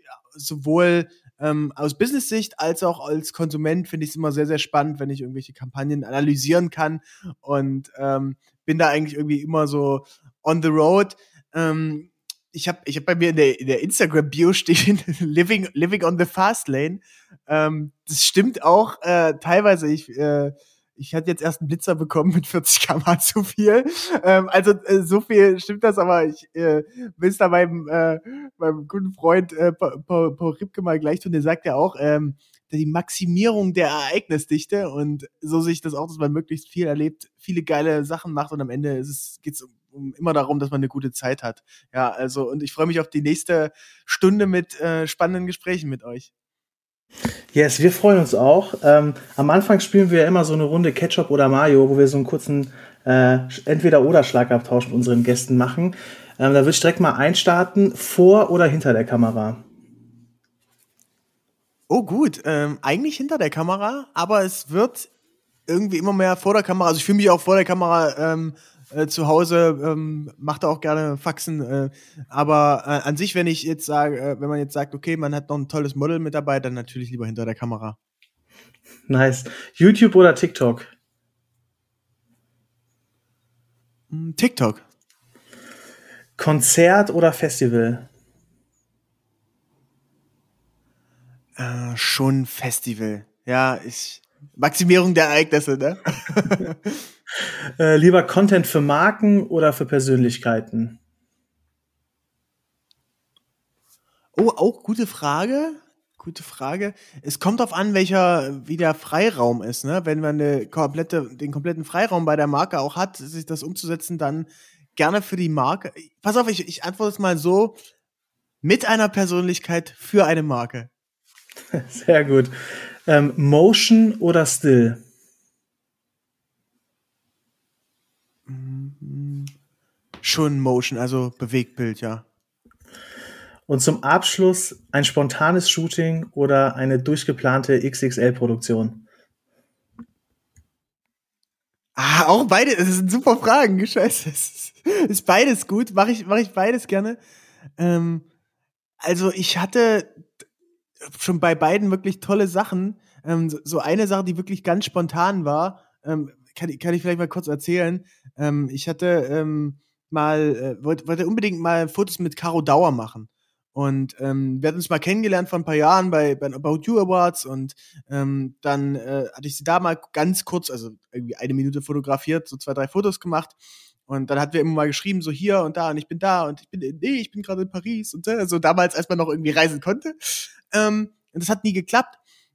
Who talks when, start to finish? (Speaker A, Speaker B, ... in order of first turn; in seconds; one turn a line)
Speaker A: 0.3-46.3
Speaker B: 47.5-59.6
Speaker A: 61.9-65.1
Speaker A: 65.7-78.0
Speaker B: 79.1-80.9
Speaker A: 84.1-84.8
Speaker B: 86.4-88.1
Speaker A: 91.6-97.1
Speaker B: 97.8-101.0
Speaker A: 104.3-117.8
Speaker A: 118.6-120.9
Speaker B: 121.7-122.5
Speaker B: 123.0-125.0
Speaker A: 128.5-129.5
Speaker A: 130.2-132.2
Speaker B: 133.7-139.1
Speaker A: 142.0-147.2
Speaker A: 147.8-148.2
Speaker A: 149.0-150.3
Speaker A: 151.1-173.6
Speaker A: 174.1-182.2